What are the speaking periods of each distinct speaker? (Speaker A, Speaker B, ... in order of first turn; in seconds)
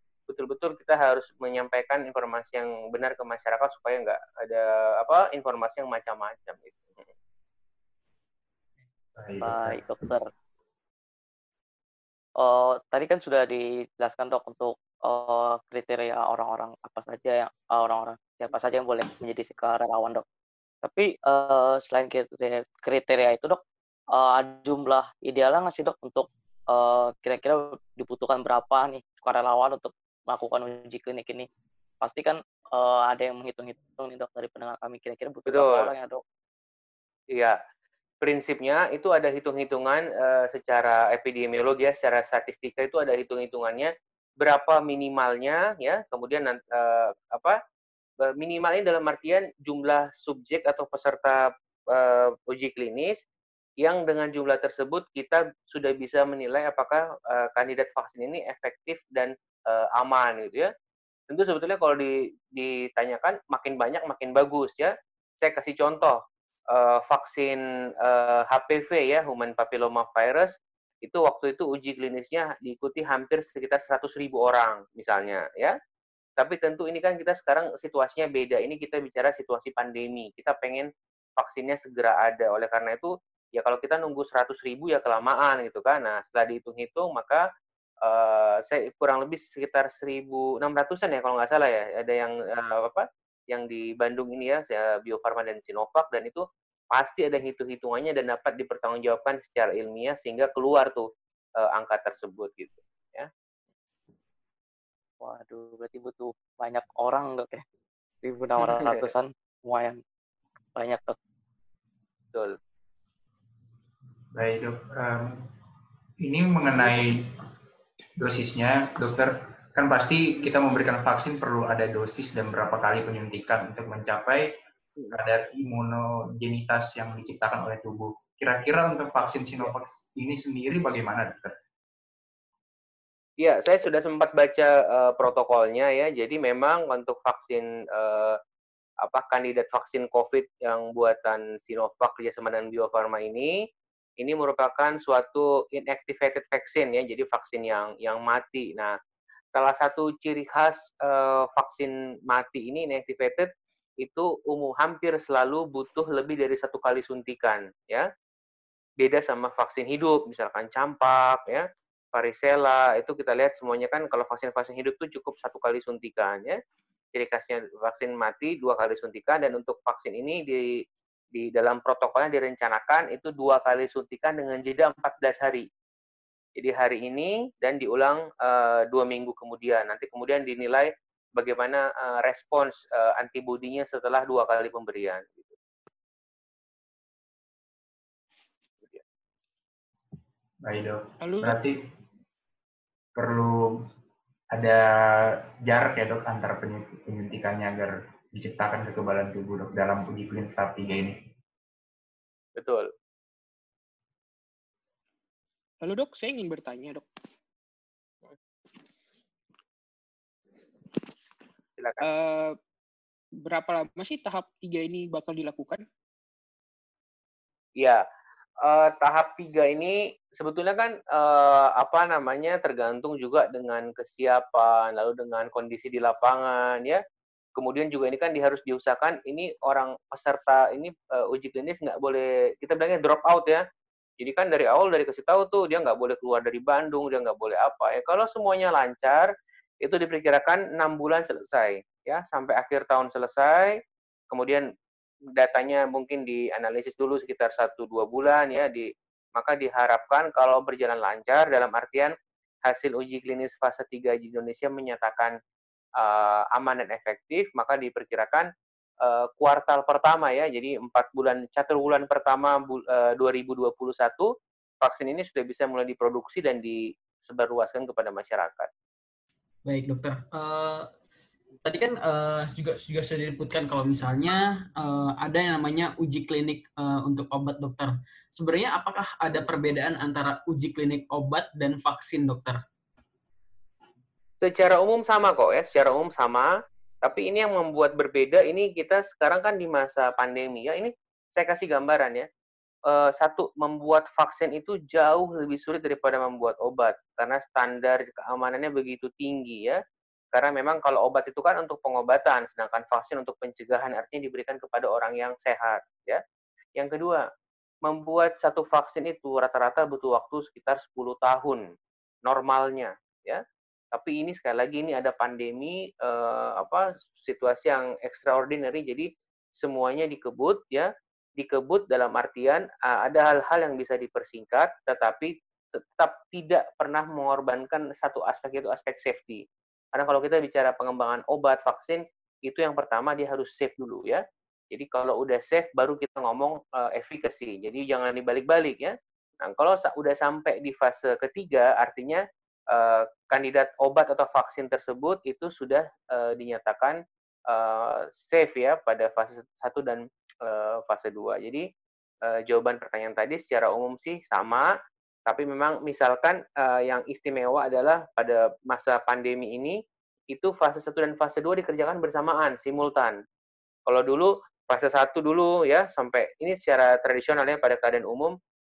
Speaker A: 0.3-7.1, 35.5-35.9, 38.2-47.6, 48.3-53.2, 53.8-60.7, 61.3-66.2, 66.7-75.8, 76.4-87.4, 88.0-103.3, 108.6-109.1, 133.4-138.4, 139.0-143.6, 144.2-149.0, 149.6-153.5, 154.0-158.1, 159.0-166.6, 167.1-170.8, 171.3-175.7, 176.6-185.6, 202.6-202.9, 211.8-212.1, 218.6-227.0, 227.6-233.6, 234.2-243.8, 244.3-244.7, 245.4-255.4, 256.0-258.5, 259.0-268.7, 284.4-286.5, 287.0-292.3, 292.9-299.8, 300.3-306.2, 306.8-307.3, 307.9-311.7, 312.3-329.4, 329.9-351.7, 352.3-354.7, 355.3-359.8, 360.3-363.2, 363.9-368.4
Speaker B: 9.2-10.0, 114.3-115.5, 116.2-117.3, 118.2-124.6, 125.1-131.6, 190.6-191.8, 193.2-193.9, 194.5-201.2
Speaker C: 9.4-10.3, 12.4-20.2, 20.8-23.6, 24.1-31.5, 32.0-36.2, 105.2-107.6, 108.2-110.0, 110.8-111.2
Speaker D: 191.2-191.6, 205.8-207.1, 212.0-212.6, 213.4-215.8
Speaker E: 269.7-270.9, 271.6-282.6